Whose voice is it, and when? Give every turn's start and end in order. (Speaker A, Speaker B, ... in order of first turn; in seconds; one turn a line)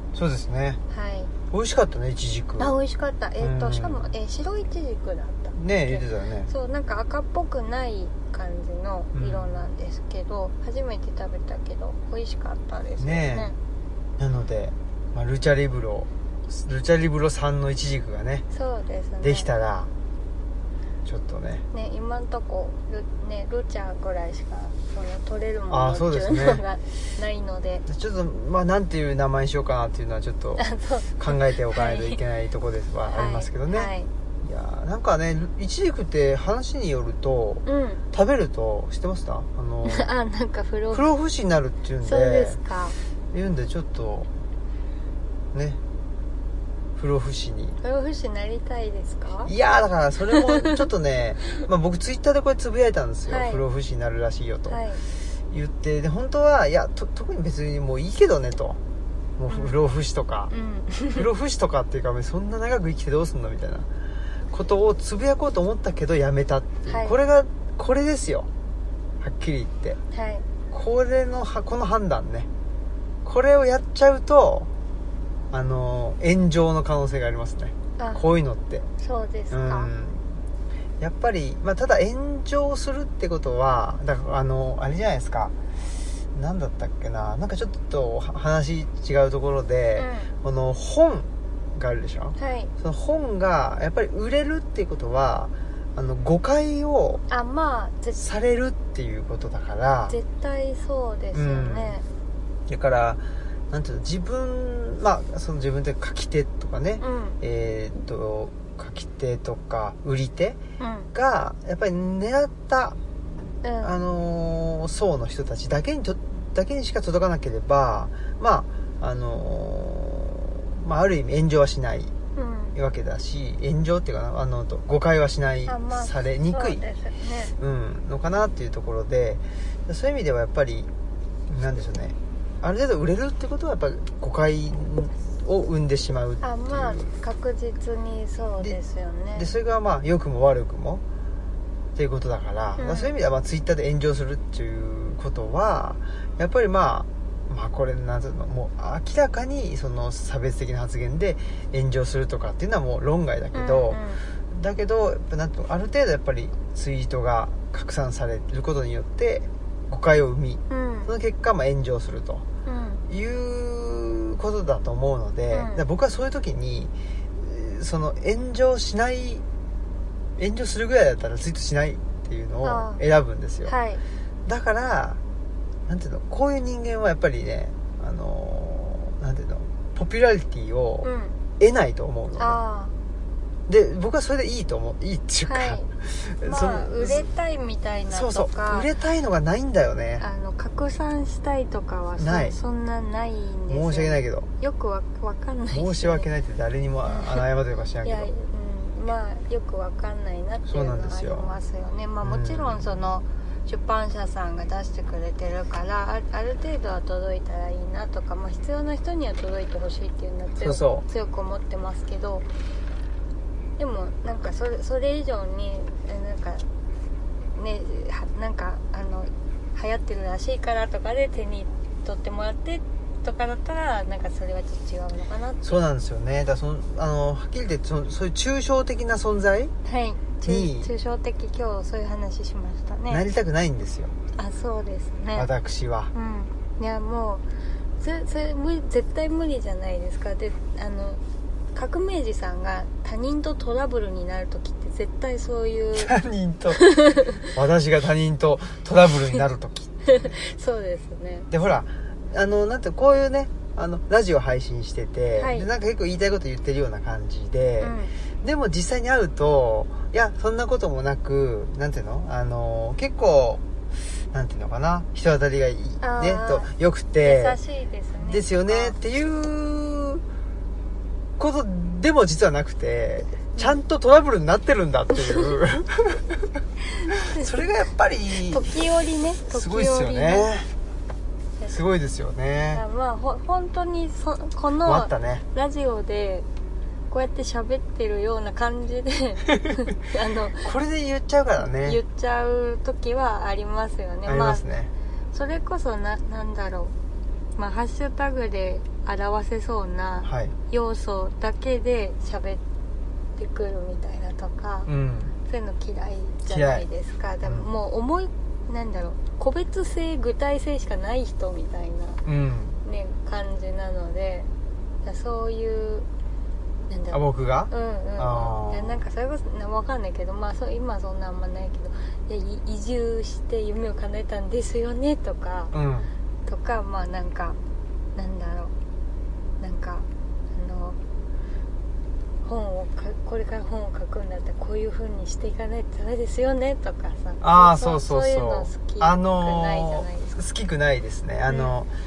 Speaker A: 0.1-0.8
Speaker B: 0.9-1.3
Speaker A: 1.5-2.7
Speaker B: 2.6-13.6
Speaker A: 3.4-4.1
Speaker A: 5.5-6.5
Speaker A: 9.1-9.6
Speaker A: 13.0-13.5
Speaker A: 14.2-18.4
Speaker B: 18.5-19.5
Speaker A: 19.2-19.9
Speaker A: 21.0-21.6
Speaker B: 21.7-27.8
Speaker A: 25.7-26.6
Speaker A: 27.9-30.6
Speaker B: 30.6-32.2
Speaker A: 31.2-33.9
Speaker B: 33.1-34.1
Speaker A: 34.4-40.1
Speaker B: 37.6-38.0
Speaker B: 39.8-41.1
Speaker A: 40.9-42.6
Speaker B: 42.0-43.0
Speaker A: 43.3-44.3
Speaker A: 45.5-45.8
Speaker A: 47.0-47.8
Speaker B: 47.8-49.5
Speaker A: 49.5-54.8
Speaker B: 50.3-50.8
Speaker B: 53.3-53.6
Speaker B: 54.7-55.0
Speaker A: 55.5-58.8
Speaker A: 59.4-60.5
Speaker B: 59.5-59.8
Speaker B: 60.5-61.2
Speaker A: 61.1-63.9
Speaker A: 64.5-68.5
Speaker B: 66.8-67.2
Speaker A: 69.2-70.0
Speaker B: 70.1-70.5
Speaker A: 70.7-72.5
Speaker A: 73.2-74.7
Speaker A: 75.5-78.9
Speaker B: 78.0-78.2
Speaker B: 79.0-79.9
Speaker A: 79.5-80.3
Speaker A: 81.0-85.5
Speaker A: 86.3-97.2
Speaker B: 90.0-90.3
Speaker B: 92.4-92.7
Speaker B: 97.3-98.2
Speaker A: 98.2-100.2
Speaker B: 100.1-102.0
Speaker A: 101.3-102.0
Speaker A: 102.7-110.6
Speaker B: 107.0-107.4
Speaker B: 110.8-111.1
Speaker A: 111.1-113.0
Speaker B: 113.6-113.9
Speaker A: 113.8-122.1
Speaker B: 122.3-122.7
Speaker A: 122.7-126.8
Speaker B: 125.7-127.5
Speaker A: 127.6-130.9
Speaker A: 131.5-137.1
Speaker B: 136.4-139.5
Speaker A: 139.3-141.0
Speaker A: 141.9-162.4
Speaker B: 142.8-143.1
Speaker B: 153.5-154.2
Speaker B: 160.7-161.1
Speaker B: 162.7-163.0
Speaker A: 163.1-169.4
Speaker B: 165.5-165.8
Speaker A: 170.4-173.7
Speaker B: 172.6-173.0
Speaker B: 173.7-174.0
Speaker A: 174.4-175.2
Speaker A: 175.9-181.1
Speaker B: 181.0-181.4
Speaker A: 181.6-182.6
Speaker B: 182.4-182.9
Speaker A: 183.7-187.3
Speaker B: 185.5-185.9
Speaker B: 186.4-188.9
Speaker A: 188.1-190.2
Speaker B: 190.2-196.3
Speaker A: 192.2-192.6
Speaker A: 193.7-194.5
Speaker A: 195.7-198.3
Speaker B: 197.1-197.4
Speaker B: 198.0-212.4
Speaker A: 200.7-201.5
Speaker A: 202.2-202.8
Speaker A: 210.6-211.0
Speaker B: 213.8-216.7
Speaker B: 217.5-225.8
Speaker A: 225.6-229.7
Speaker B: 229.8-233.2
Speaker A: 230.4-230.9
Speaker A: 233.1-234.1
Speaker B: 234.3-235.5
Speaker A: 235.3-236.1
Speaker B: 236.1-237.4
Speaker B: 238.0-241.2
Speaker B: 241.7-246.1
Speaker A: 245.9-246.8
Speaker B: 246.7-247.5
Speaker A: 247.4-249.9
Speaker B: 250.1-251.7
Speaker A: 251.5-263.6
Speaker B: 255.3-255.7
Speaker B: 257.8-258.1
Speaker A: 264.3-267.6
Speaker B: 266.0-269.0
Speaker A: 268.2-270.2
Speaker A: 271.4-276.5
Speaker B: 276.9-277.6
Speaker A: 277.3-278.8
Speaker B: 278.5-280.5
Speaker A: 279.4-280.7
Speaker A: 281.7-282.8
Speaker B: 282.7-286.5
Speaker A: 284.8-285.4
Speaker B: 287.1-290.7
Speaker A: 290.6-292.0
Speaker B: 291.8-294.6
Speaker A: 294.2-294.9
Speaker B: 295.3-296.9
Speaker B: 297.6-302.6
Speaker A: 300.2-300.5
Speaker B: 303.4-304.9
Speaker A: 304.9-305.3
Speaker B: 305.4-312.2
Speaker A: 306.5-306.9
Speaker A: 307.4-307.7
Speaker A: 312.2-312.8
Speaker B: 312.8-314.5
Speaker B: 315.0-316.1
Speaker B: 316.9-325.7
Speaker A: 317.1-319.0
Speaker A: 325.7-326.1
Speaker B: 326.4-327.6
Speaker B: 328.1-328.7
Speaker B: 329.6-331.0
Speaker B: 332.4-340.4
Speaker A: 337.4-341.9
Speaker B: 341.5-341.7